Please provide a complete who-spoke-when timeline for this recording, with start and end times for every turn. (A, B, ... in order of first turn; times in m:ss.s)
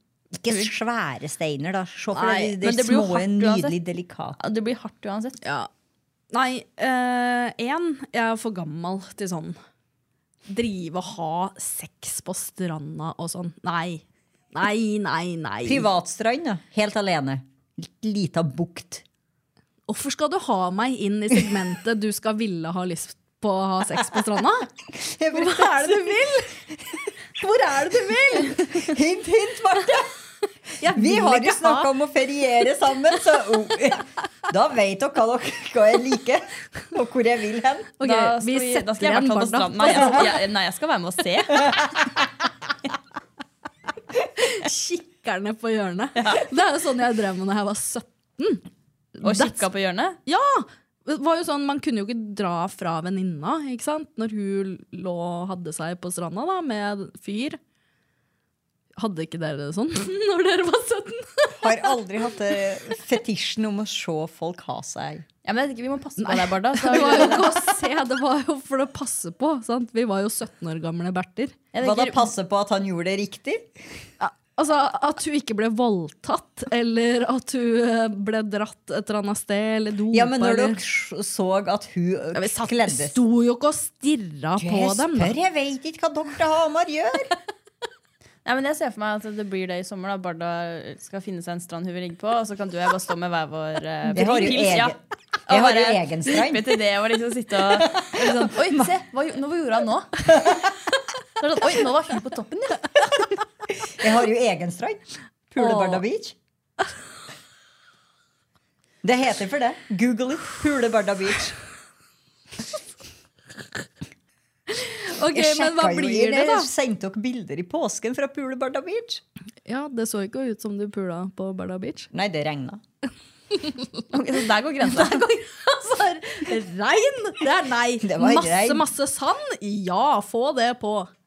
0:00.4-0:04.4 A
0:02.2-0:03.7 B
0:04.4-0:05.4 B
0:05.4-0:05.7 C
0:06.3-0:09.6 C
0:10.5-0:15.9 C
0:15.6-0:19.0 A
0:19.9-0:24.7 C
0:24.9-0:26.3 A
0:25.3-0:26.6 C
0:27.2-0:29.0 C
0:28.4-0:30.1 A
0:30.8-0:31.9 C
0:30.8-0:38.0 A
0:38.0-0:40.4 C
0:38.0-0:42.0 B
0:44.4-0:48.6 C
0:49.2-0:49.6 C
0:49.2-0:50.2 B
0:50.3-0:57.6 C
0:59.0-1:02.0 C
1:01.5-1:05.3 A
1:05.4-1:07.7 B
1:06.2-1:11.6 C
1:11.7-1:12.3 B
1:11.8-1:13.8 A
1:14.2-1:20.8 C
1:20.1-1:23.2 A
1:22.4-1:25.4 C
1:24.6-1:27.3 A
1:28.4-1:35.0 B
1:34.1-1:36.8 A
1:35.5-1:40.7 B
1:41.4-1:43.3 B
1:43.8-1:45.0 A
1:45.5-1:46.4 A
1:49.0-1:51.6 A
1:54.7-1:56.7 C
1:55.3-1:59.2 A
1:59.7-2:02.1 C
2:02.1-2:02.8 A
2:04.1-2:05.2 B
2:04.9-2:11.1 C
2:08.0-2:08.9 A